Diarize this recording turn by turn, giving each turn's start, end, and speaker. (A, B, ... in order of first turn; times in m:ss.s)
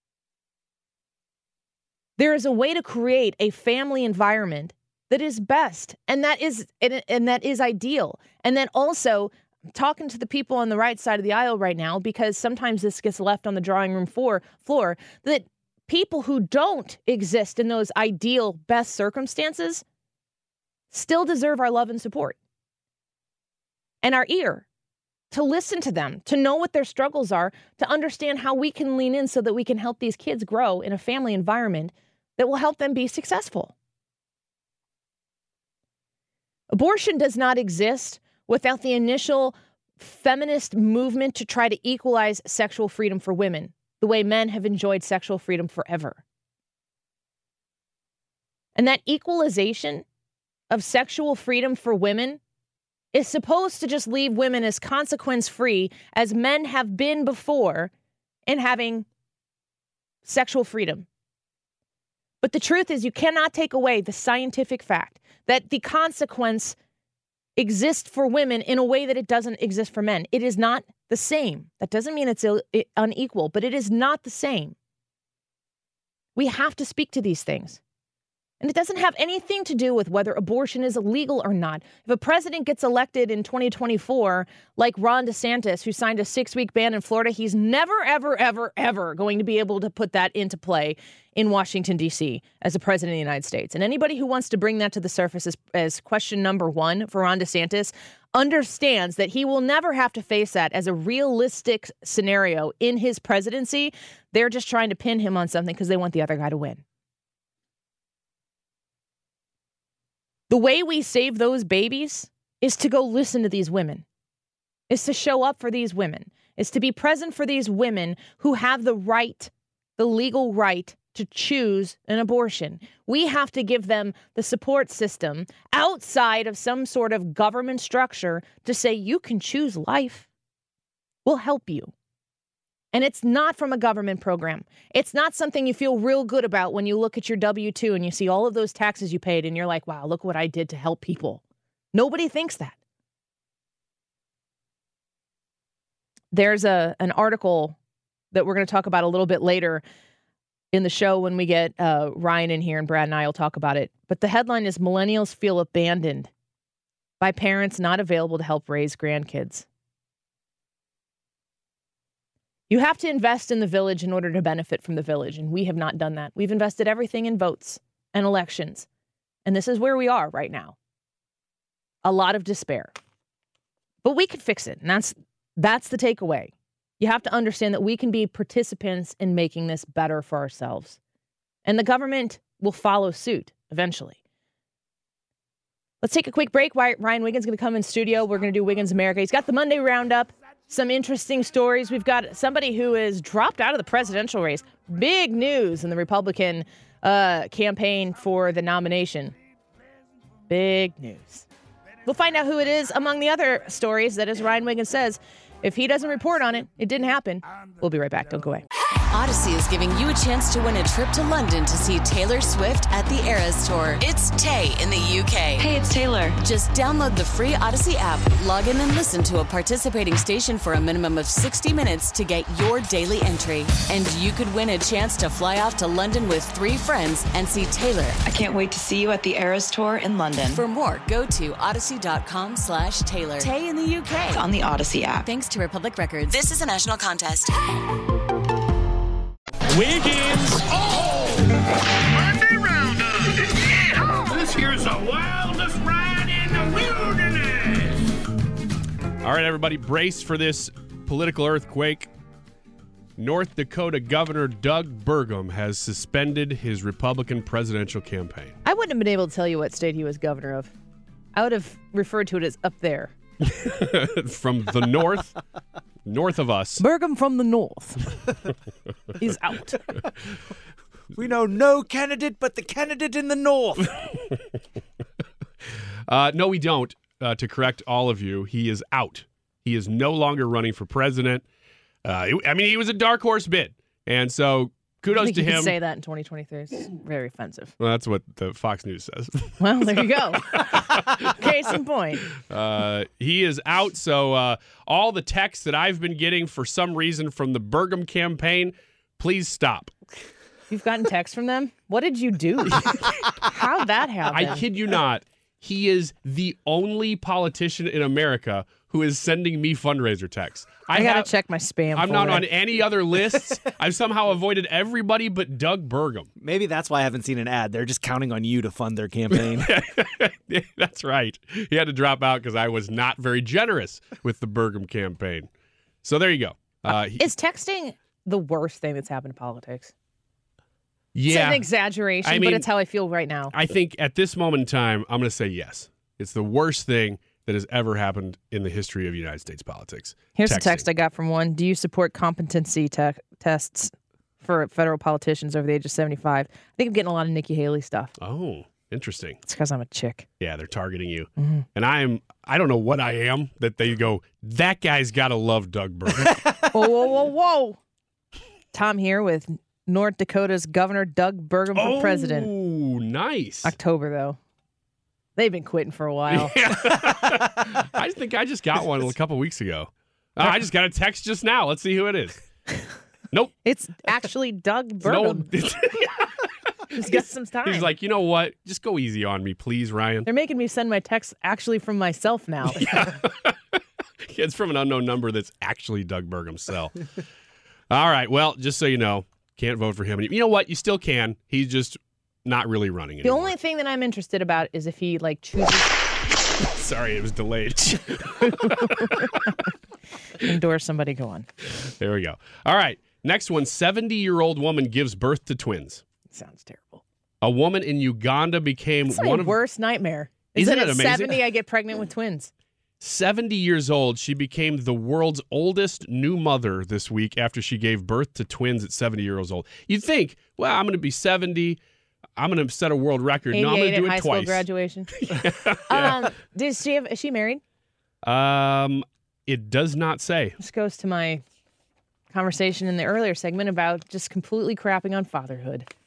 0:02.2-0:19.8 A
0:20.9-0:22.4 A
0:24.0-0:24.6 A
0:25.3-0:33.7 A
0:36.7-0:46.2 A
0:48.8-0:50.0 A
0:50.7-0:52.4 A
0:53.1-0:57.9 A
0:58.5-0:59.0 A
1:00.2-1:01.0 A
1:02.4-1:06.8 A
1:07.6-1:14.7 A
1:16.4-1:17.8 A
1:18.6-1:46.8 A
1:50.5-1:54.0 A
1:54.9-2:10.3 A
2:11.2-2:11.9 A
2:12.9-2:21.4 A
2:21.9-2:22.8 A
2:26.3-2:27.8 A
2:28.3-2:29.8 A
2:30.7-2:36.3 A
2:37.2-2:39.6 A
2:42.7-2:48.9 A
2:49.4-2:50.8 A
2:52.0-2:52.9 A
2:54.0-3:01.0 A
3:01.6-3:04.2 A
3:06.0-3:19.4 A
3:20.5-3:21.4 A
3:22.0-3:28.6 A
3:29.1-3:35.6 B
3:35.6-3:36.4 C
3:36.4-3:48.2 B
3:48.2-3:50.6 C
3:50.5-3:54.4 B
3:53.4-3:55.3 C
3:55.2-3:57.5 B
3:59.7-4:01.5 D
4:02.1-4:08.0 D
4:09.2-4:12.1 E
4:13.2-4:18.6 E
4:18.6-4:20.7 A
4:21.3-4:23.1 A
4:23.4-4:25.4 E
4:26.0-4:26.8 E
4:26.8-4:28.0 A
4:29.2-4:29.8 A
4:31.1-4:33.8 F
4:33.9-4:34.3 E
4:36.1-4:41.4 E
4:42.0-4:45.8 E
4:45.1-4:47.7 A
4:47.8-4:51.3 E
4:49.6-4:52.3 A
4:52.5-4:59.9 E
5:00.7-5:04.6 A
5:04.3-5:11.3 E
5:10.9-5:12.5 A
5:11.9-5:16.3 E
5:16.4-5:19.7 F
5:19.5-5:25.5 E
5:26.0-5:27.3 E
5:27.2-5:29.9 A
5:31.1-5:31.7 E
5:31.3-5:33.5 A
5:32.2-5:32.7 E
5:33.5-5:40.9 E
5:40.4-5:48.1 A
5:48.2-5:49.4 E
5:49.4-5:50.2 A
5:50.4-5:56.3 E
5:56.7-5:57.8 A
5:58.7-6:02.5 A
6:01.7-6:03.7 E
6:03.6-6:04.4 A
6:05.4-6:06.6 A
6:06.3-6:12.4 E
6:13.6-6:15.5 A
6:15.0-6:16.3 E
6:16.9-6:17.9 A
6:17.6-6:20.3 E
6:20.2-6:23.0 A
6:22.8-6:23.8 E
6:24.3-6:26.9 E
6:27.9-6:33.5 E
6:33.2-6:36.0 A
6:36.6-6:39.3 E
6:38.6-6:39.5 A
6:40.4-6:41.5 A
6:42.0-6:46.0 E
6:46.3-6:47.0 A
6:47.4-6:49.6 E
6:49.1-6:52.5 A
6:50.5-6:51.4 E
6:53.0-7:01.8 E
7:02.4-7:04.6 E
7:03.5-7:05.1 A
7:05.2-7:06.3 E
7:05.9-7:07.6 A
7:08.2-7:10.6 E
7:10.6-7:11.4 A
7:12.3-7:15.9 A